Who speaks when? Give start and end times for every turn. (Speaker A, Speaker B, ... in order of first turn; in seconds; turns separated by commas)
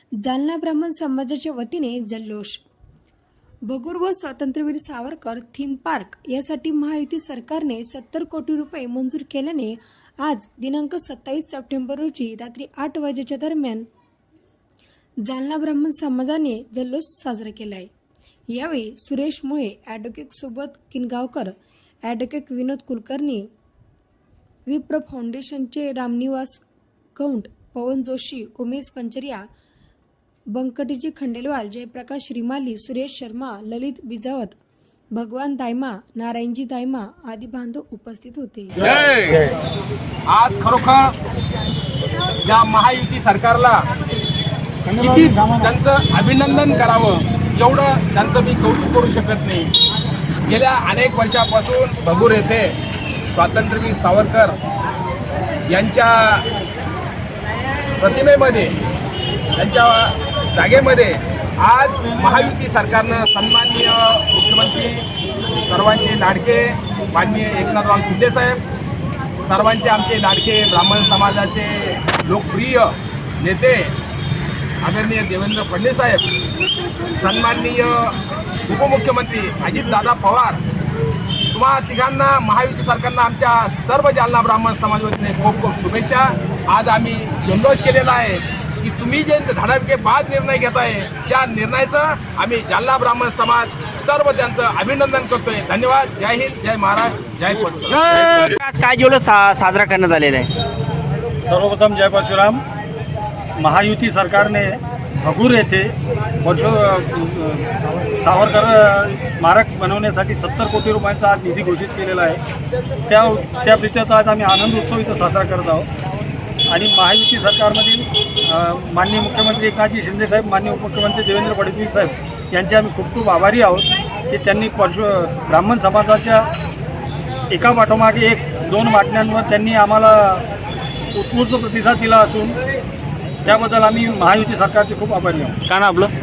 Speaker A: 0.2-2.7, Speaker A: 3.7-13.9, Speaker A: 15.2-17.9, Speaker A: 18.5-23.5, Speaker A: 24.7-26.6, Speaker A: 27.2-29.5, Speaker A: 30.5-34.6, Speaker A: 35.1-38.9, Speaker B: 40.3-41.1, Speaker B: 42.4-43.8, Speaker C: 44.9-45.7, Speaker B: 45.0-49.7, Speaker B: 50.5-52.8, Speaker B: 53.4-54.6, Speaker B: 55.7-56.5, Speaker B: 58.0-58.7, Speaker B: 59.5-65.1, Speaker B: 65.7-68.6, Speaker B: 69.4-74.0, Speaker B: 74.8-76.3, Speaker A: 76.8-77.2, Speaker B: 77.2-80.6, Speaker B: 81.5-98.4, Speaker D: 97.9-100.5, Speaker C: 101.5-102.6, Speaker C: 103.6-112.4, Speaker C: 113.1-115.9, Speaker C: 116.7-126.5, Speaker C: 127.5-130.4, Speaker C: 131.1-132.6, Speaker C: 133.4-135.6, Speaker D: 135.7-136.1